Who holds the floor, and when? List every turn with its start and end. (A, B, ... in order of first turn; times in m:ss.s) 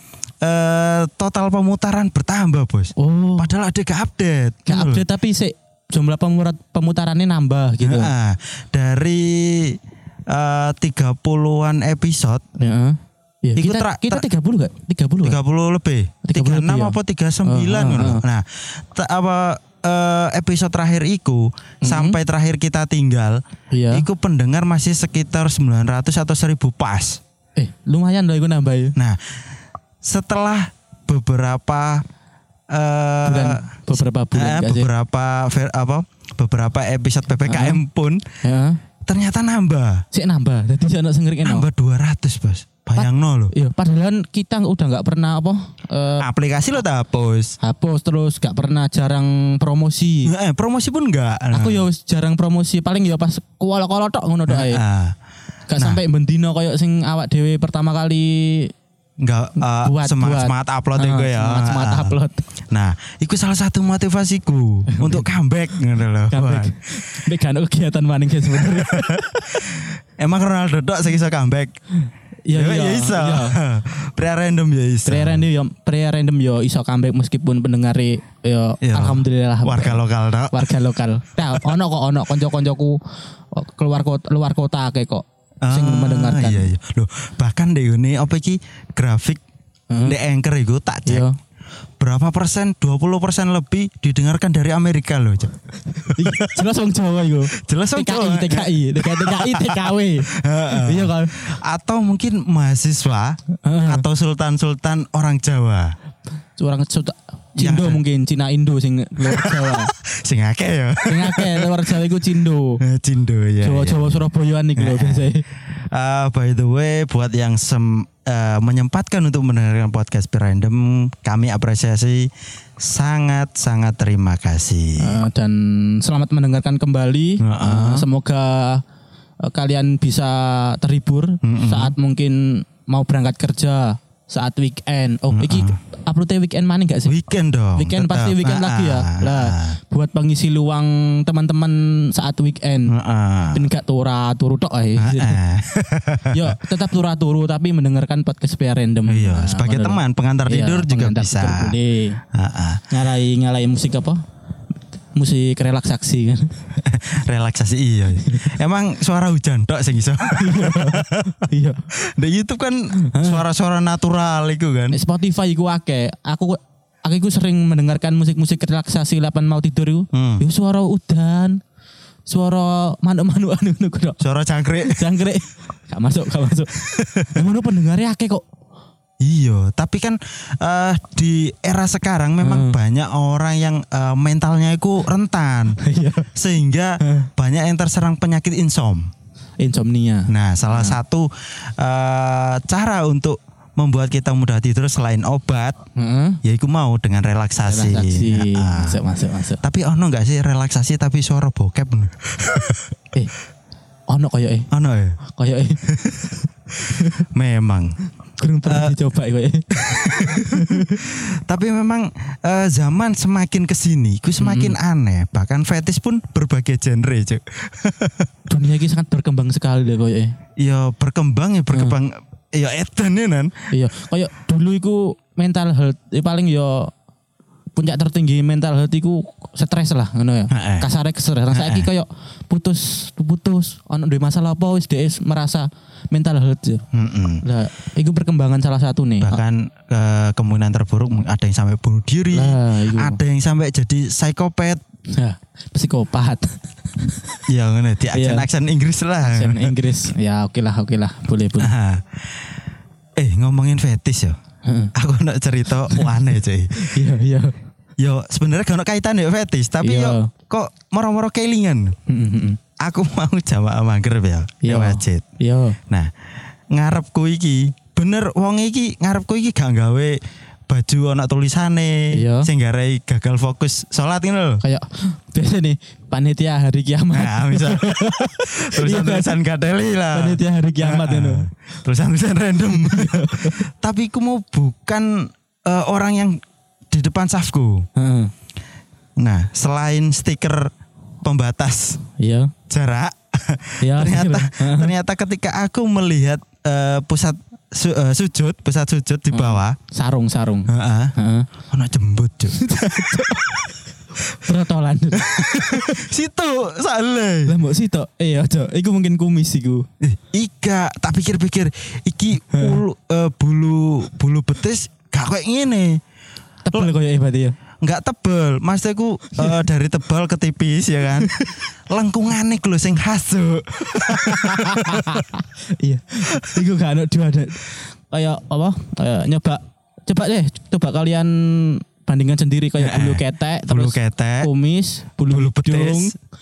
0:00.4-0:05.0 A
0:03.0-0:03.5 B
0:04.7-0:08.1 B
0:07.8-0:09.8 A
0:10.3-0:12.4 A
0:12.6-0:15.4 B
0:13.6-0:14.2 A
0:15.2-0:23.4 A
0:16.2-0:18.2 B
0:21.8-0:22.2 B
0:23.7-0:24.0 B
0:23.9-0:27.2 A
0:27.6-0:28.9 B
0:30.0-0:32.0 A
0:32.7-0:38.3 A
0:33.2-0:34.9 B
0:37.4-0:37.8 B
0:38.4-0:38.8 B
0:39.0-0:40.0 A
0:40.1-0:41.6 B
0:41.4-0:43.5 A
0:43.0-0:46.3 B
0:46.2-0:47.5 A
0:47.6-0:50.3 B
0:50.2-0:51.8 A
0:51.5-0:54.8 B
0:54.5-0:55.1 A
0:55.7-0:58.7 B
0:59.2-1:02.1 A
0:59.6-1:02.4 B
1:02.7-1:06.7 A
1:04.9-1:05.2 B
1:06.3-1:09.6 B
1:08.5-1:11.7 A
1:12.0-1:13.6 B
1:12.5-1:15.5 A
1:15.0-1:23.0 B
1:18.8-1:20.7 A
1:23.5-1:26.7 B
1:25.6-1:29.4 A
1:29.9-1:30.2 B
1:30.0-1:31.3 A
1:31.1-1:31.3 B
1:32.0-1:36.6 A
1:36.1-1:41.4 B
1:37.5-1:45.9 A
1:43.6-1:44.0 B
1:46.6-1:49.9 B
1:47.6-1:48.0 A
1:49.3-1:51.7 A
1:51.0-1:52.8 B
1:52.8-1:54.2 A
1:53.6-1:55.4 B
1:54.8-2:02.3 A
2:02.8-2:05.2 A
2:05.0-2:08.8 B
2:07.4-2:08.0 A
2:09.4-2:17.1 B
2:11.4-2:11.9 A
2:15.3-2:15.8 A
2:17.0-2:19.8 A
2:17.7-2:22.9 B
2:22.9-2:23.6 A
2:23.5-2:25.4 B
2:25.0-2:26.6 A
2:26.3-2:32.2 B
2:29.1-2:31.7 A
2:32.3-2:32.8 A
2:32.9-2:34.2 B
2:35.1-2:36.6 B
2:36.8-2:45.0 A
2:38.2-2:38.5 B
2:40.3-2:41.9 B
2:43.0-2:43.4 B
2:44.9-2:51.6 B
2:50.1-2:50.4 A
2:52.3-2:54.2 B
2:54.2-2:55.1 A
2:54.8-2:56.7 B
2:56.8-2:57.3 A
2:57.3-2:58.4 B
2:59.2-3:05.8 A
3:02.4-3:02.8 B
3:05.8-3:06.3 B
3:06.3-3:09.1 A
3:07.0-3:07.3 B
3:09.6-3:11.0 B
3:10.3-3:15.8 A
3:15.9-3:16.4 B
3:16.4-3:19.0 A
3:17.6-3:19.6 B
3:19.6-3:22.8 A
3:24.1-3:24.7 B
3:24.7-3:25.2 A
3:25.3-3:25.8 B
3:25.8-3:26.4 A
3:26.9-3:27.2 B
3:27.0-3:27.9 A
3:28.4-3:29.7 B
3:28.6-3:28.9 A
3:29.7-3:38.3 A
3:30.3-3:31.0 B
3:34.4-3:34.8 B
3:38.5-3:40.3 B
3:40.6-3:43.5 A
3:43.7-3:46.9 B
3:47.8-3:56.8 B
3:50.5-3:50.9 A
3:51.5-3:51.9 A
3:56.9-3:57.4 A
3:57.4-3:59.4 B
3:59.2-4:04.8 A
4:02.3-4:03.2 B
4:05.1-4:07.4 B
4:07.5-4:09.7 A
4:08.1-4:08.4 B
4:09.2-4:11.7 B
4:11.6-4:12.4 A
4:13.2-4:14.3 A
4:14.6-4:14.9 B
4:14.9-4:16.9 A
4:16.7-4:17.5 B
4:18.0-4:21.9 A
4:19.8-4:20.3 B
4:22.1-4:22.6 B
4:22.8-4:25.2 A
4:24.6-4:25.8 B
4:26.7-4:34.6 A
4:32.1-4:32.5 B
4:34.6-4:39.4 B
4:37.1-4:46.4 A
4:40.1-4:41.5 B
4:42.7-4:43.6 B
4:46.9-4:47.8 A
4:48.0-4:48.3 B
4:49.2-4:50.7 A
4:51.2-4:52.0 A
4:52.2-4:52.5 B
4:52.7-4:59.8 A
4:53.8-4:54.9 B
4:59.3-5:01.5 B
5:00.7-5:01.1 A
5:01.6-5:03.7 A
5:02.5-5:03.7 B
5:04.3-5:06.0 B
5:05.2-5:07.5 A
5:07.4-5:09.9 B
5:10.0-5:16.0 A
5:12.5-5:12.8 B
5:16.6-5:17.6 B
5:17.8-5:25.2 A
5:21.2-5:21.5 B
5:24.0-5:36.1 B
5:32.8-5:34.5 A
5:35.3-5:36.1 A